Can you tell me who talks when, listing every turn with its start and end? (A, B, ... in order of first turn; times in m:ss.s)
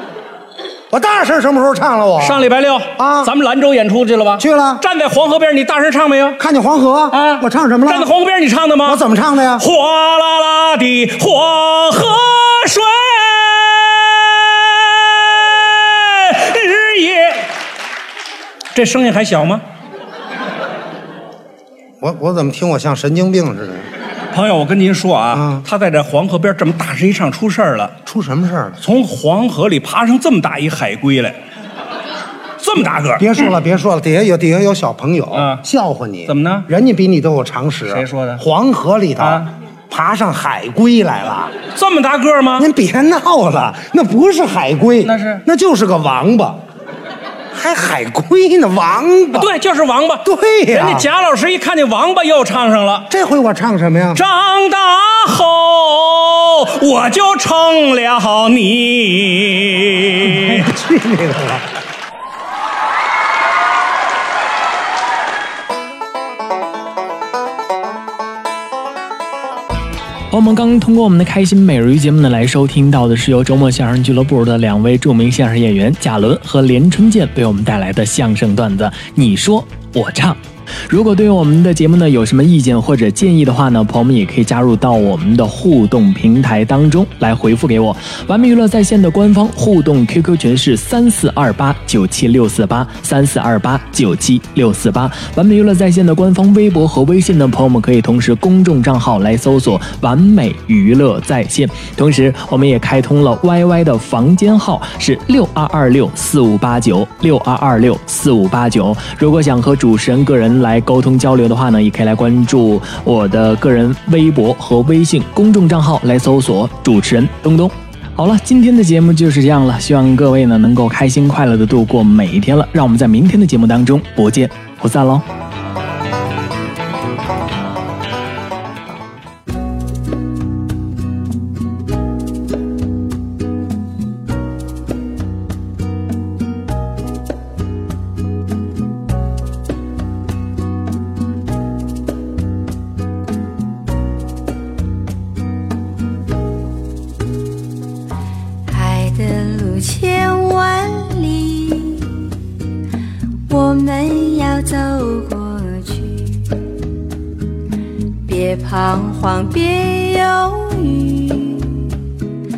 0:00.9-0:02.5 A
0:02.2-0:06.4 B
0:03.0-0:03.3 A
0:04.4-0:04.8 A
0:06.4-0:08.1 A
0:07.1-0:09.0 B
0:08.8-0:09.7 A
0:09.6-0:17.5 B
0:18.7-0:19.6 B
0:22.0-0:23.9 A
0:24.3-0:27.9 B
0:25.3-0:25.6 A
0:28.0-0:28.8 A
0:28.8-0:31.4 B
0:32.6-0:33.3 B
0:33.2-0:41.6 A
0:35.3-0:35.6 B
0:36.3-0:36.7 B
0:37.9-0:38.4 B
0:39.2-0:39.5 B
0:41.8-0:42.7 B
0:42.6-0:46.6 A
0:45.0-0:45.4 B
0:47.5-0:49.5 A
0:49.4-0:53.1 B
0:50.2-0:51.1 A
0:53.1-0:54.2 A
0:54.2-1:00.7 B
1:00.2-1:01.7 A
1:10.3-2:05.2 C
2:28.7-2:32.4 D
2:33.5-2:36.5 D
2:38.3-2:42.0 D